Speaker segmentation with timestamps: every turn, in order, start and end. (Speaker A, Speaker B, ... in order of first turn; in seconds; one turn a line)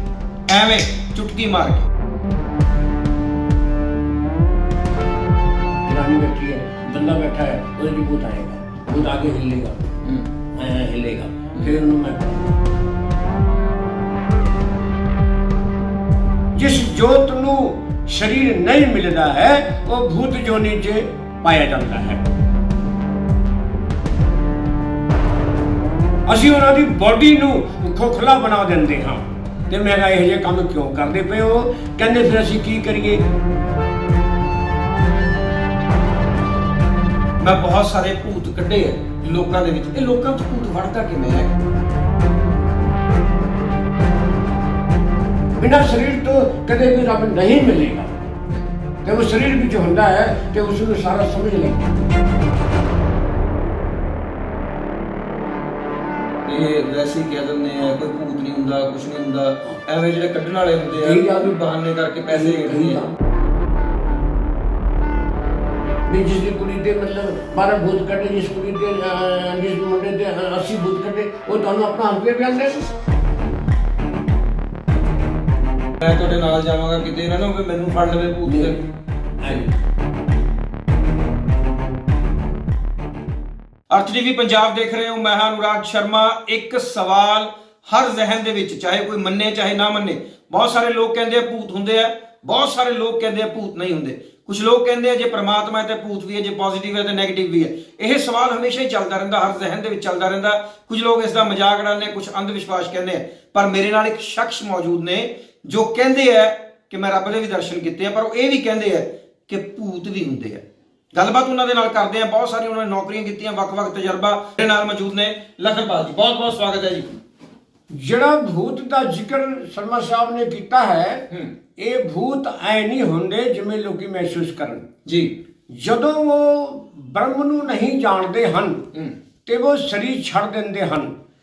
Speaker A: 0.5-1.9
Speaker B: 5.9-9.8
Speaker A: 10.0-10.3
Speaker B: 10.5-12.6
Speaker B: 16.6-22.2
Speaker B: 26.3-33.2
Speaker A: 37.4-41.6
Speaker B: 45.6-48.1
Speaker B: 49.0-52.0
Speaker A: 56.5-63.0
Speaker B: 61.0-61.5
Speaker B: 62.3-63.1
Speaker B: 66.1-72.8
Speaker A: 76.0-78.8
Speaker B: 78.5-78.8
Speaker B: 79.4-79.7
Speaker A: 83.9-117.1
Speaker B: 117.9-121.3
Speaker B: 121.8-124.8
Speaker A: 125.1-125.3
Speaker B: 125.7-128.9
Speaker B: 129.5-131.1